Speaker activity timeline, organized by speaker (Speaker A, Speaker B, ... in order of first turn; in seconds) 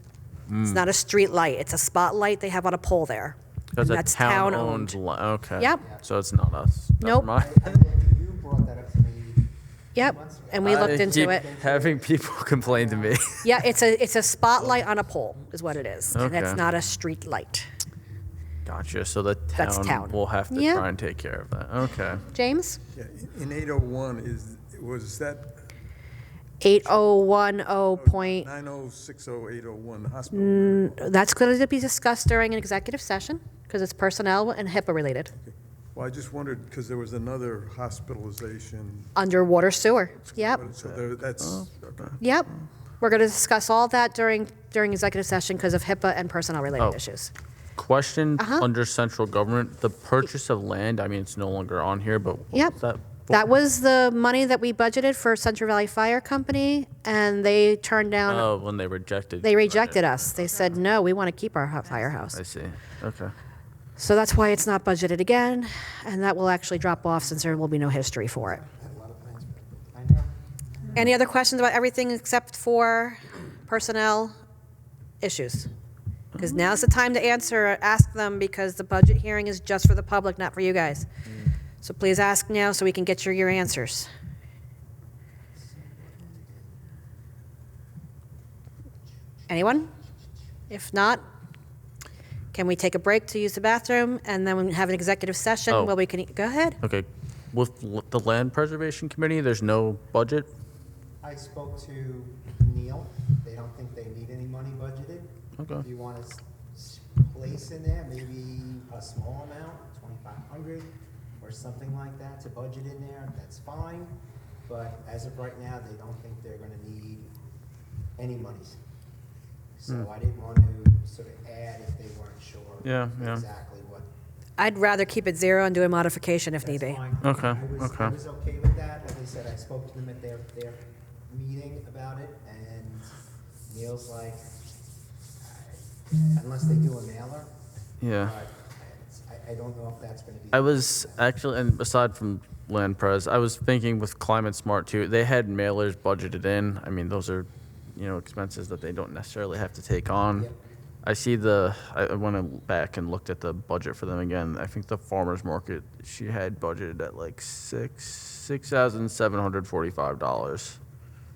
Speaker A: 0.5-0.9, 3.7-7.8, 10.6-13.6, 16.1-16.6, 18.6-22.2, 40.5-42.2, 47.8-53.5, 58.3-60.7, 62.3-63.3, 96.8-100.5, 105.6-105.9, 122.8-123.5, 127.2-128.1, 138.0-138.3, 140.5-150.5, 151.0-160.8
Speaker B: 0.6-5.0, 7.0-7.3, 9.9-11.4, 13.4-17.7, 19.6-20.8, 22.3-22.8, 26.6-28.5, 30.3-35.3, 39.2-40.6, 42.2-42.5, 43.0-47.3, 48.4-48.6, 53.3-58.5, 59.4-62.4, 64.0-68.6, 70.9-74.3, 75.2-75.7, 76.4-81.1, 81.8-84.1, 89.5-89.9, 90.7-91.2, 92.5-96.8, 124.6-127.0
Speaker C: 7.3-9.4, 10.0-13.3, 68.4-71.1, 85.6-86.7, 101.2-114.2, 114.7-117.3, 118.2-118.8, 119.8-124.1, 126.6-133.1, 133.7-134.5, 135.4-137.5, 138.2-141.2
Speaker D: 22.9-25.6, 27.9-31.0, 35.4-39.1, 40.4-42.1